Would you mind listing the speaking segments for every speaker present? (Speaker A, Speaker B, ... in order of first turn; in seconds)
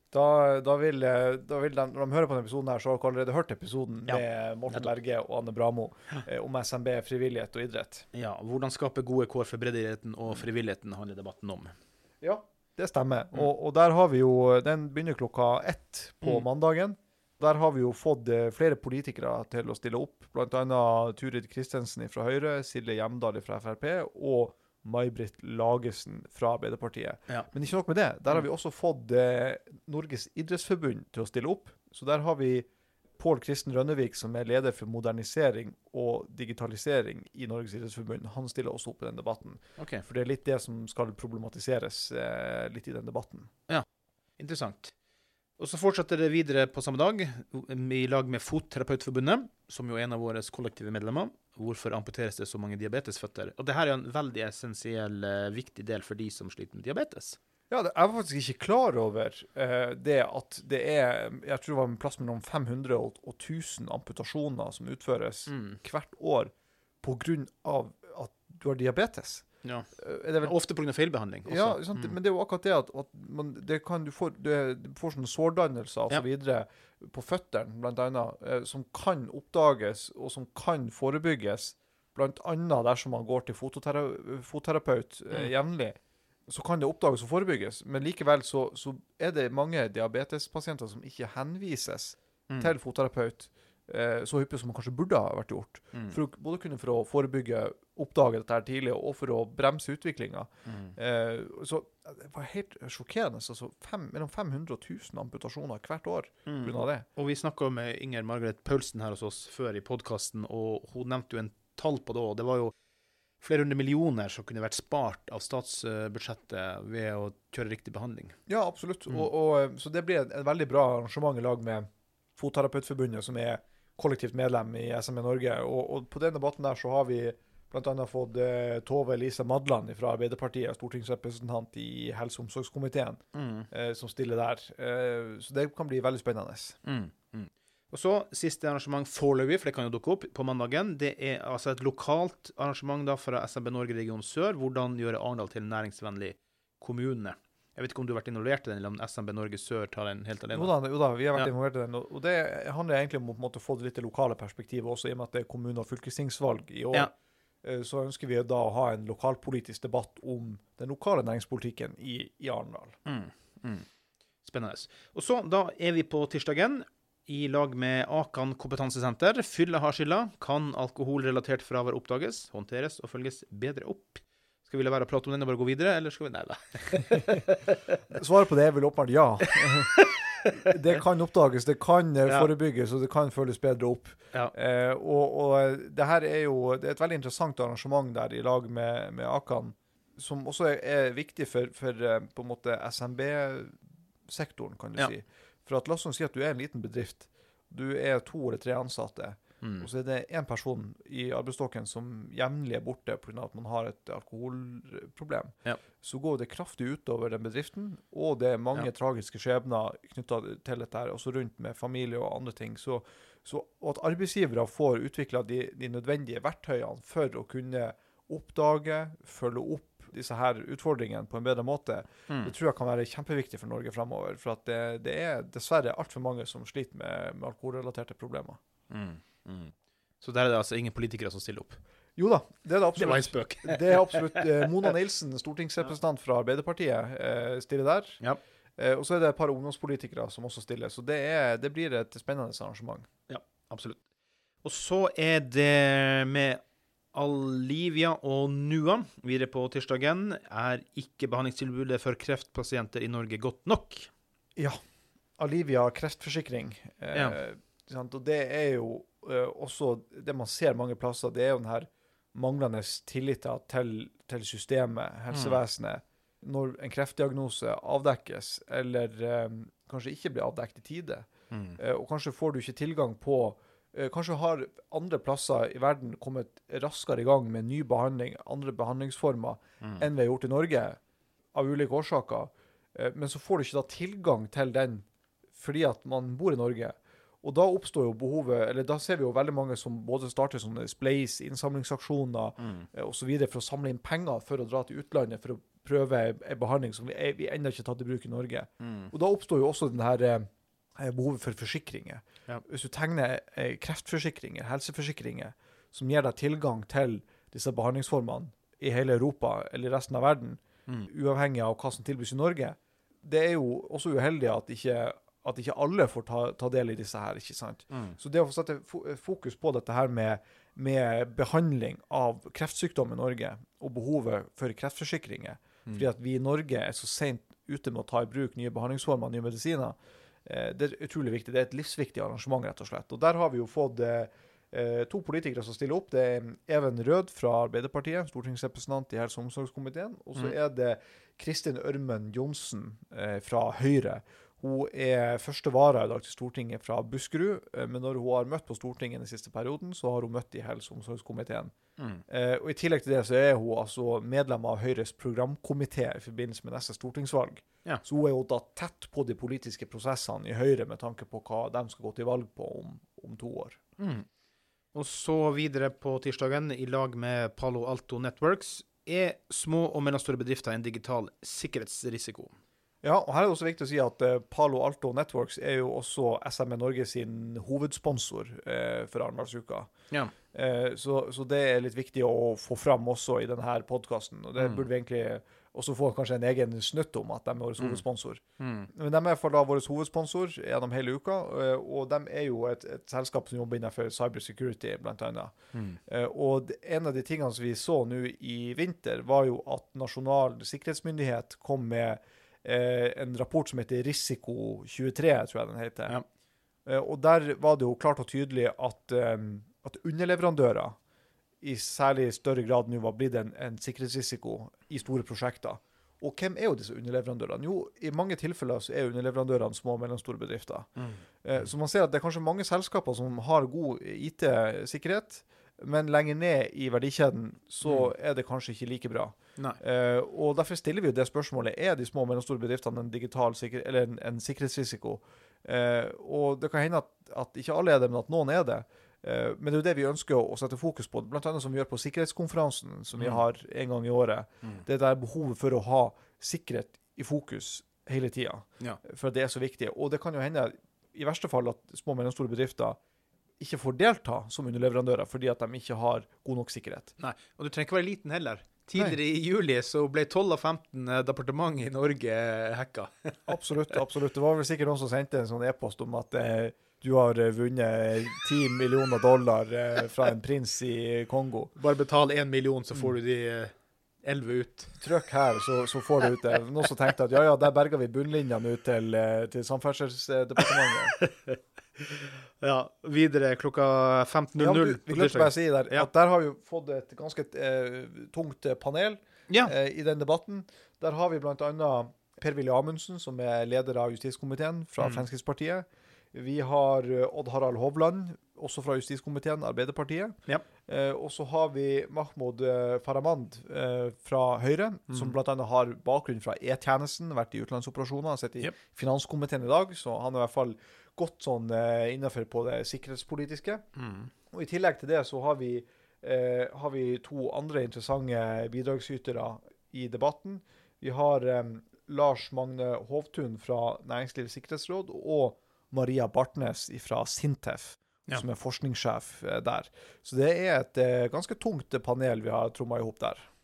Speaker A: 0.1-8.1, 12.2-32.7, 33.2-43.5, 57.7-69.5, 70.0-70.5, 71.5-86.0, 86.5-107.0, 118.5-136.8, 150.5-157.1, 157.6-163.0, 178.1-180.0, 180.6-228.6, 232.2-238.2, 238.8-243.1, 255.4-281.0, 281.5-285.0, 285.6-351.7, 352.3-363.8, 373.0-379.9, 380.5-395.5, 396.1-406.2, 406.9-411.0, 411.6-420.9, 421.4-453.0, 453.6-457.1, 463.5-471.7, 475.0-481.2, 484.6-513.8, 514.5-533.5
Speaker B: 4.1-4.9, 8.1-11.7, 39.8-40.0, 44.4-44.9, 45.6-57.4, 65.5-65.8, 69.6-69.9, 70.4-72.1, 95.9-96.2, 100.7-100.9, 106.5-112.7, 113.4-118.4, 133.3-133.7, 136.8-150.7, 163.1-163.8, 164.4-177.8, 179.5-180.7, 199.6-199.9, 228.9-231.8, 232.9-234.7, 243.3-244.0, 244.6-246.6, 247.1-254.1, 265.3-265.6, 271.5-271.8, 279.8-280.1, 292.6-292.9, 298.8-299.1, 317.9-318.2, 352.0-352.2, 364.0-364.3, 364.9-372.6, 384.6-384.9, 388.6-388.9, 395.7-396.0, 421.0-421.7, 427.8-428.1, 443.2-443.4, 457.2-463.5, 471.8-475.0, 481.2-486.1, 495.0-495.2, 505.1-505.4, 514.0-514.3